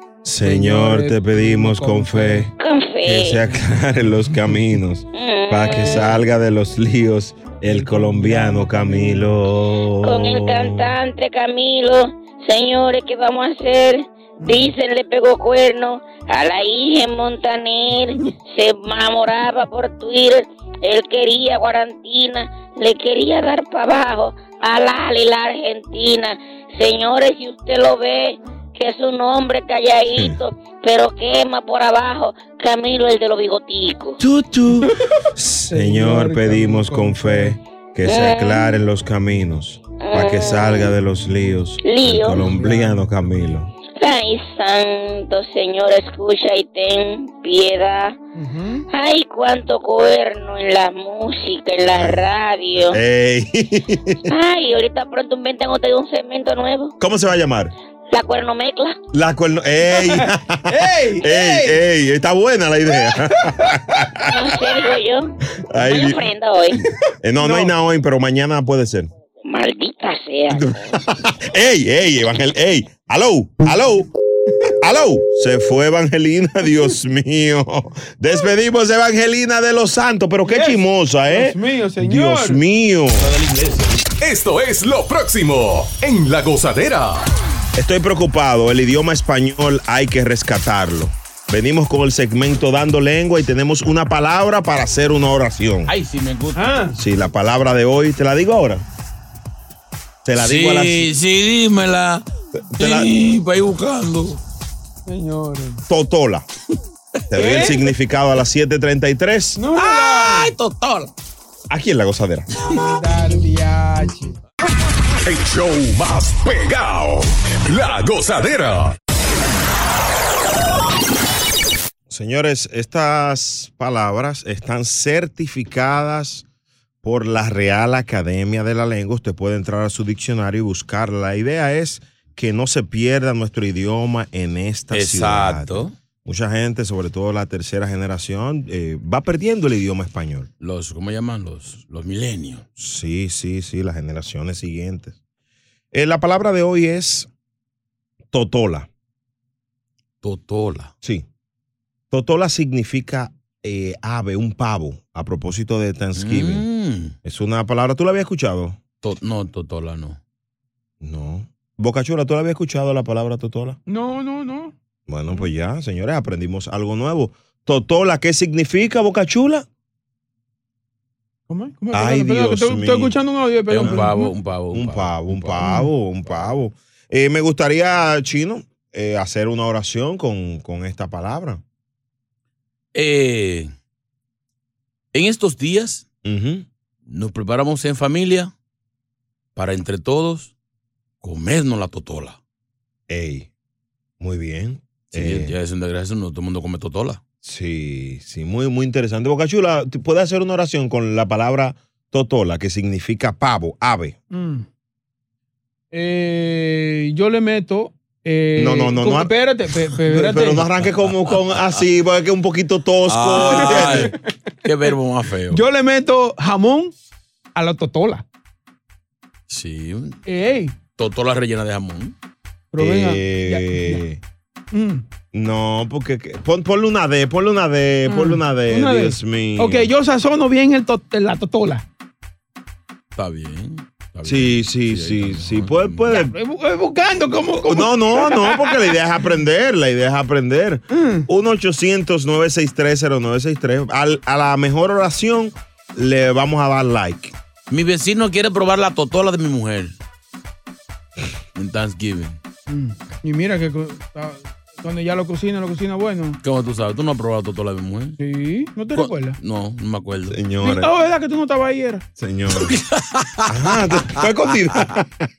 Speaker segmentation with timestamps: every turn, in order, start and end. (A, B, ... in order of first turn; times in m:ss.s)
0:00.2-0:02.5 A
0:00.4-0:02.5 B
0:02.6-0:03.4 C
0:03.0-0:10.9 A
0:04.3-0:04.6 B
0:05.1-0:06.1 C
0:05.7-0:06.1 B
0:07.6-0:09.3 B
0:10.0-0:34.2 C
0:14.4-0:14.7 B
0:30.1-0:30.4 A
0:34.2-0:43.7 A
0:35.7-0:37.6 B
0:38.0-0:38.8 C
0:40.0-0:40.9 C
0:41.8-0:42.4 C
0:42.4-0:43.1 B
0:44.0-0:48.2 C
0:48.3-0:48.8 B
0:48.9-0:53.0 C
0:51.8-0:54.3 A
0:54.3-0:56.9 C
0:57.0-0:57.7 A
0:58.1-0:59.0 C
0:59.1-1:04.6 A
0:59.8-1:01.8 B
1:03.5-1:03.7 B
1:04.3-1:06.8 C
1:05.7-1:06.3 A
1:07.2-1:09.1 A
1:07.4-1:07.7 B
1:09.4-1:11.0 C
1:10.5-1:14.1 A
1:14.8-1:23.3 A
1:20.4-1:22.6 B
1:23.2-1:23.9 D
1:24.2-1:27.2 E
1:27.8-1:35.9 A
1:35.8-1:36.9 D
1:36.5-1:36.9 B
1:36.9-1:38.8 A
1:40.2-1:41.1 A
1:40.4-1:42.2 D
1:42.7-1:43.1 A
1:42.8-1:44.4 D
1:45.0-1:45.8 B
1:45.9-1:46.5 A
1:47.3-1:49.6 A
1:47.4-1:47.8 B
1:49.6-1:50.5 B
1:49.7-1:51.1 D
1:51.7-1:52.5 A
1:52.8-1:54.4 B
1:55.2-1:59.0 E
2:02.1-2:06.4 A
2:07.0-2:20.5 A
2:14.9-2:15.9 D
2:20.6-2:22.6 D
2:22.8-2:25.2 A
2:25.9-2:27.3 A
2:28.3-2:28.9 A
2:30.2-2:30.9 D
2:32.1-2:36.6 A
2:36.2-2:37.1 D
2:37.2-2:38.8 A
2:39.0-2:40.2 D
2:41.0-2:43.8 A
2:43.9-2:44.7 B
2:45.1-2:49.6 A
2:51.5-2:54.3 B
2:51.9-2:53.1 A
2:53.7-2:55.7 D
2:54.7-3:01.6 A
2:55.6-2:55.9 B
2:56.2-2:56.5 D
3:02.9-3:03.7 D
3:05.1-3:06.0 D
3:06.2-3:06.6 A
3:07.1-3:08.5 D
3:09.6-3:10.5 D
3:11.2-3:12.4 D
3:13.1-3:13.5 A
3:14.2-3:15.5 A
3:15.1-3:17.2 D
3:17.4-3:24.2 A
3:24.3-3:24.6 B
3:25.9-3:30.7 B
3:28.6-3:29.3 A
3:30.0-3:34.1 A
3:30.8-3:31.8 D
3:33.1-3:34.1 D
3:33.4-3:34.2 B
3:34.6-3:35.6 D
3:35.5-3:36.9 B
3:37.5-3:38.2 B
3:39.5-3:40.2 D
3:40.2-3:40.7 B
3:41.0-3:42.1 D
3:42.7-3:44.0 B
3:42.8-3:44.2 A
3:44.7-3:45.0 B
3:45.3-3:49.9 A
3:48.1-3:51.8 B
3:53.1-3:56.1 D
3:54.2-3:56.3 A
3:56.1-3:59.0 B
3:57.6-4:07.3 A
4:00.9-4:01.3 B
4:07.7-4:10.0 D
4:11.5-4:12.4 D
4:12.7-4:16.4 B
4:16.4-4:18.2 D
4:18.2-4:19.4 B
4:18.9-4:20.4 D
4:20.3-4:20.9 A
4:20.6-4:22.0 B
4:22.2-4:22.8 A
4:22.6-4:23.5 D
4:23.5-4:25.1 A